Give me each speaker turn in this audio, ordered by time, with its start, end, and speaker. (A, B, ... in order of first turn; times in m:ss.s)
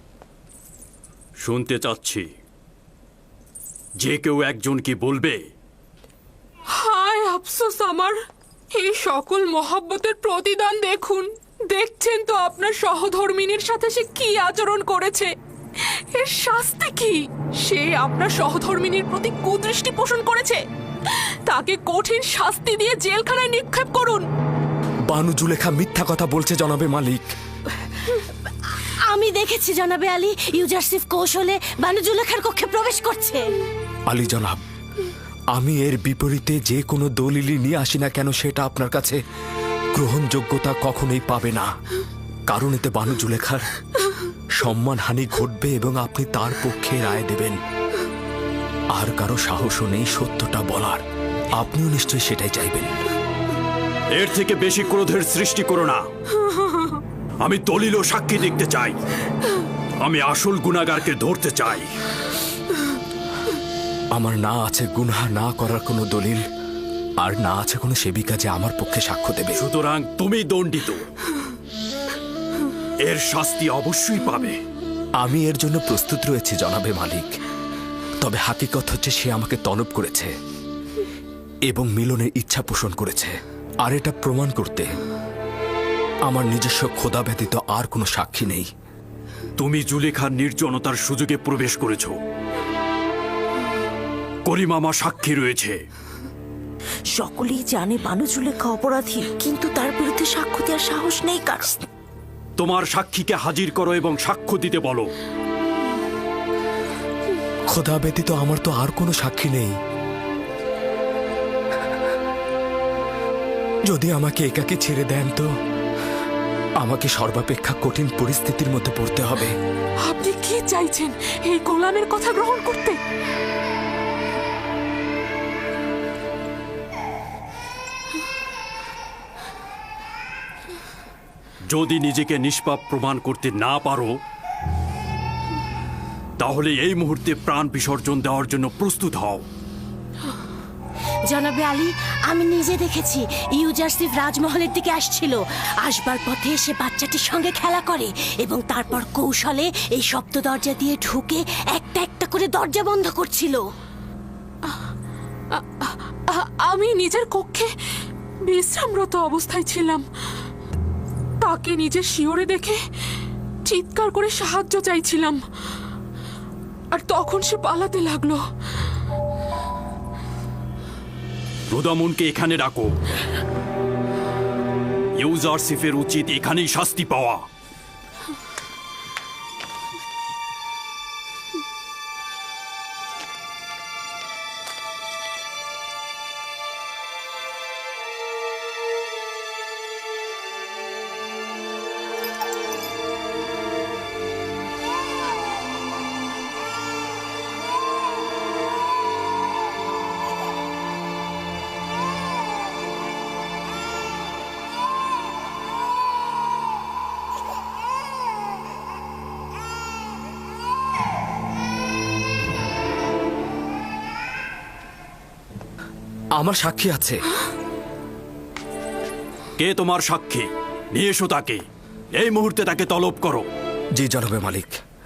0:01.4-0:02.3 A
0:04.0-0:05.4 A
0:06.8-0:08.2 B
0:08.8-0:15.3 B
0:16.2-0:24.2 B
0:25.1-0:27.2 C
0:28.8-0:33.6 D
0:34.1-0:34.6 C
0:35.5-0:39.2 C
0:40.0-0:41.7 C
0:42.5-0:43.7 C
0:44.6-0:47.6 C
0:48.9-0:51.0 C
0:51.6-0:52.9 C
0:54.2-0:56.0 A
0:57.4-0:59.0 A
1:00.0-1:01.9 A
1:04.2-1:06.4 C
1:07.2-1:09.6 C
1:09.6-1:11.0 A
1:13.1-1:14.6 A
1:15.2-1:17.3 C
1:18.2-1:20.3 C
1:21.7-1:24.9 C
1:26.3-1:28.7 C
1:29.6-1:32.2 A
1:34.5-1:35.8 A
1:37.2-1:41.7 E
1:42.6-1:45.1 A
1:47.7-1:49.8 C
1:53.9-1:55.5 C
1:56.8-1:59.5 C
2:00.1-2:03.0 B
2:11.7-2:14.1 A
2:16.4-2:19.4 A
2:21.2-2:33.7 D
2:35.5-2:37.7 B
2:38.5-2:40.1 B
2:41.4-2:42.8 B
2:43.7-2:45.4 B
2:46.9-2:48.4 B
2:51.7-2:52.9 A
2:55.2-2:57.4 A
3:36.4-3:37.2 C
3:39.6-3:41.6 A
3:42.2-3:43.5 A
3:44.0-3:44.7 C